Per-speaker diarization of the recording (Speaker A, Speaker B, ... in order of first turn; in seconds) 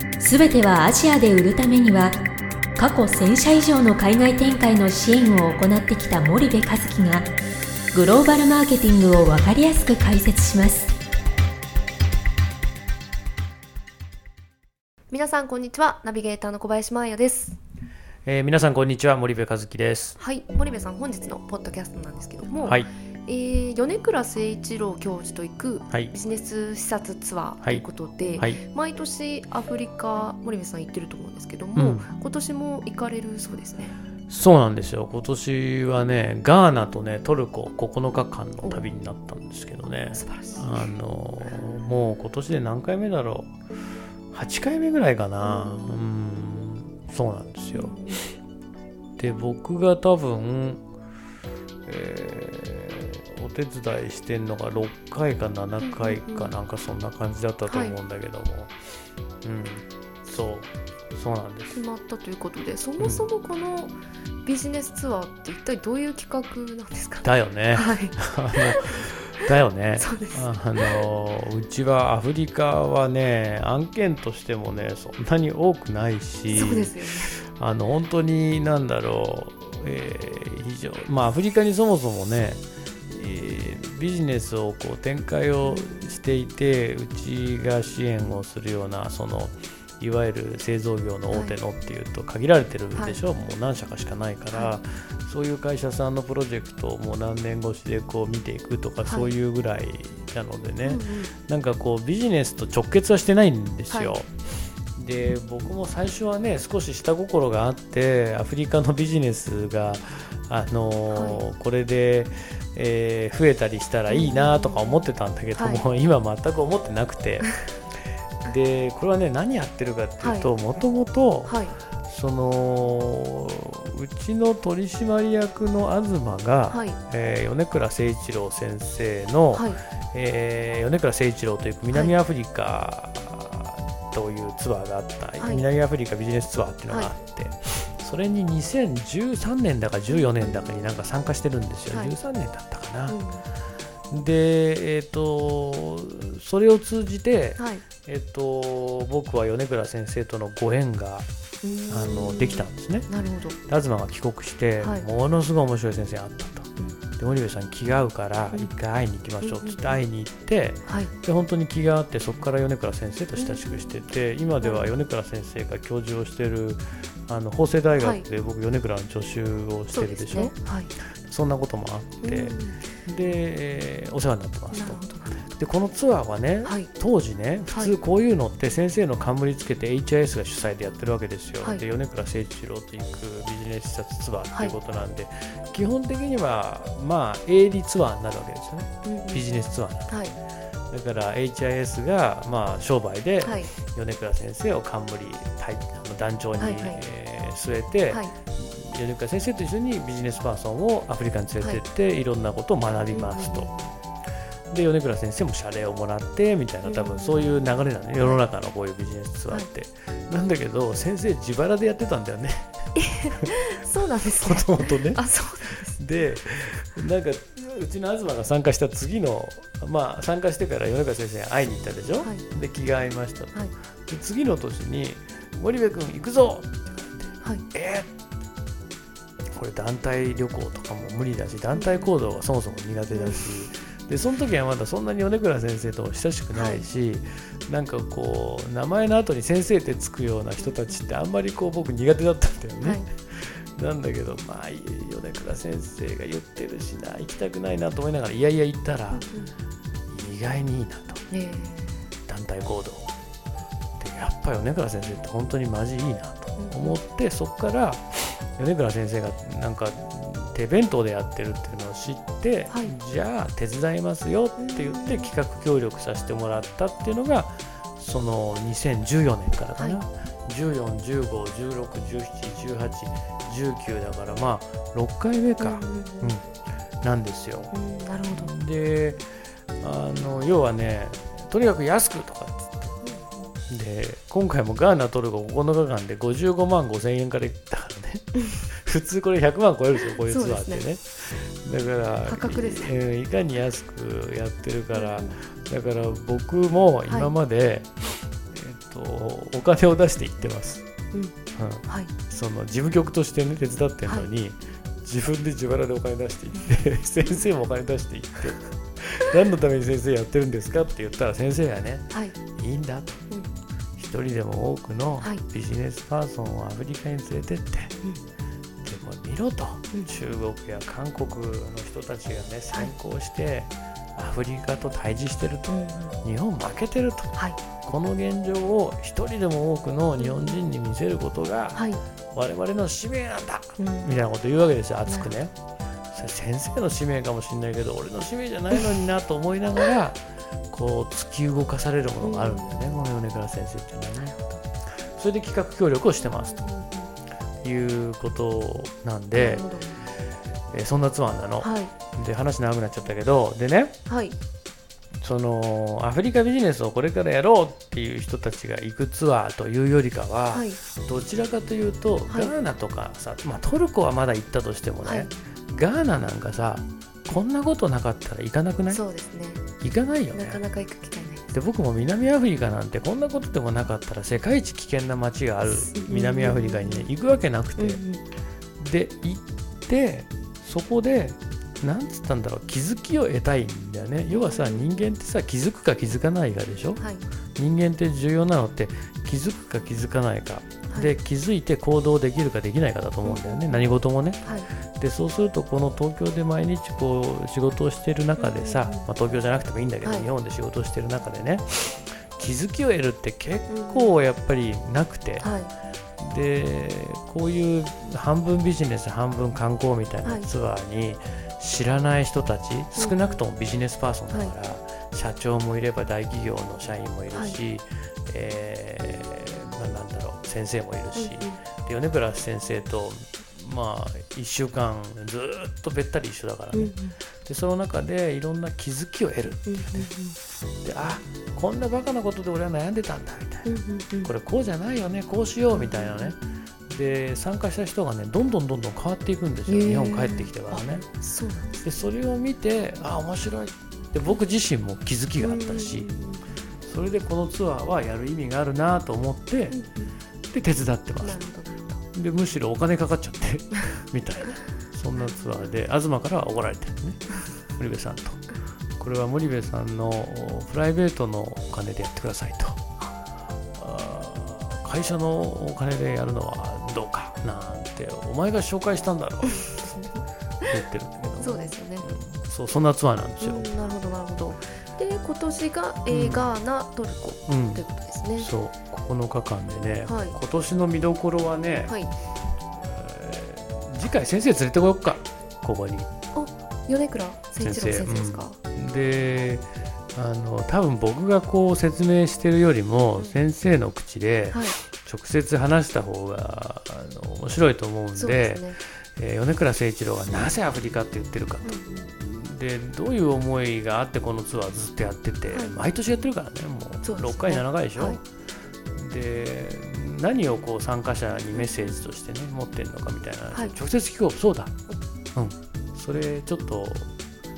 Speaker A: 0.2-2.2, 2.8-7.3, 7.9-10.9
Speaker B: 15.1-17.6, 20.2-34.0, 40.1-40.9, 45.4-46.0, 47.7-48.3, 55.8-56.5, 57.7-58.0, 61.7-69.2, 70.0-71.0, 76.5-77.3, 85.6-86.2, 91.3-91.6, 93.0-93.2, 94.5-94.8, 99.0-99.3, 100.8-101.3, 103.9-104.2, 111.1-111.4, 114.1-115.9, 120.2-120.5, 121.5-121.8, 126.7-127.0, 129.5-129.8, 135.4-135.7, 140.1-140.7, 141.9-142.2, 143.1-143.4, 147.6-147.8, 151.6-153.6, 154.8-155.1, 159.4-160.0, 160.9-161.1, 163.4-163.6, 164.6-164.9, 168.0-168.3, 169.9-170.9, 172.2-172.8, 174.7-175.5, 176.6-176.9, 189.1-189.5, 190.1-190.4, 193.4-193.7, 196.6-197.0, 203.1-203.9, 206.8-207.6, 213.0-216.0, 231.7-232.1, 233.1-233.5, 236.5-236.8, 240.6-241.0, 242.8-243.1, 249.1-249.5, 251.3-252.1, 256.6-257.0, 262.7-262.9, 264.6-265.3, 275.6-276.4, 277.7-278.5, 283.0-283.3, 290.2-290.9, 292.2-293.0, 294.9-295.4, 297.1-297.4, 301.9-302.1, 312.1-312.4, 325.7-326.1, 327.4-327.6, 330.2-330.6, 331.7-332.0, 333.8-334.1, 335.1-335.3, 342.2-343.0, 344.2-344.6, 346.4-347.1, 349.3-350.1, 351.6-351.9, 354.1-354.4, 360.5-360.8, 362.3-362.6, 365.0-365.3, 368.9-369.7, 370.3-371.5, 375.7-377.1, 377.8-378.2, 384.3-384.9, 387.0-387.3, 390.9-391.1, 393.2-393.8, 394.4-394.7, 398.4-399.1, 400.0-400.3, 403.7-404.2, 405.4-405.7, 410.2-410.5, 413.0-413.4, 417.3-417.6, 421.1-421.6, 426.8-427.2, 429.7-430.4, 433.6-434.3, 435.7-436.4, 439.7-441.8, 445.4-446.4, 449.7-450.1, 451.2-452.0, 455.2-455.4, 469.8-470.2, 471.4-472.1, 473.4-478.5, 480.1-480.4, 481.9-482.1, 486.3-488.6, 493.1-493.4, 494.5-494.8, 498.2-498.8, 501.6-502.1, 505.5-505.9, 507.0-508.2, 511.6-512.0
Speaker C: 18.2-20.2, 22.6-22.9, 31.8-32.1, 34.3-43.5, 44.3-48.0, 49.2-50.8, 51.9-58.7, 59.4-61.8, 63.0-63.2, 67.2-104.3, 104.9-117.6, 118.4-143.2, 144.1-151.3, 151.9-153.1, 153.7-170.6, 171.2-190.3, 190.9-203.7, 204.7-212.7, 214.4-215.2, 215.9-228.1, 229.5-249.3, 250.1-251.2, 252.3-253.1, 254.0-276.4, 277.0-277.7, 278.3-279.3, 279.8-283.0, 283.7-300.9, 301.6-313.3, 314.0-318.0, 318.8-335.5, 336.1-344.4, 345.0-346.6, 347.6-349.7, 350.7-354.0, 355.2-369.0, 369.8-370.6, 371.5-378.0, 378.8-387.0, 387.6-405.5, 406.2-430.1, 430.8-441.1, 441.8-446.1, 446.9-449.8, 450.5-451.4, 452.1-458.5, 459.0-462.8, 463.8-470.1, 470.6-473.7, 476.1-476.5, 477.5-477.9, 478.4-482.0, 482.8-486.1, 487.6-508.2, 508.9-514.7, 515.4-517.1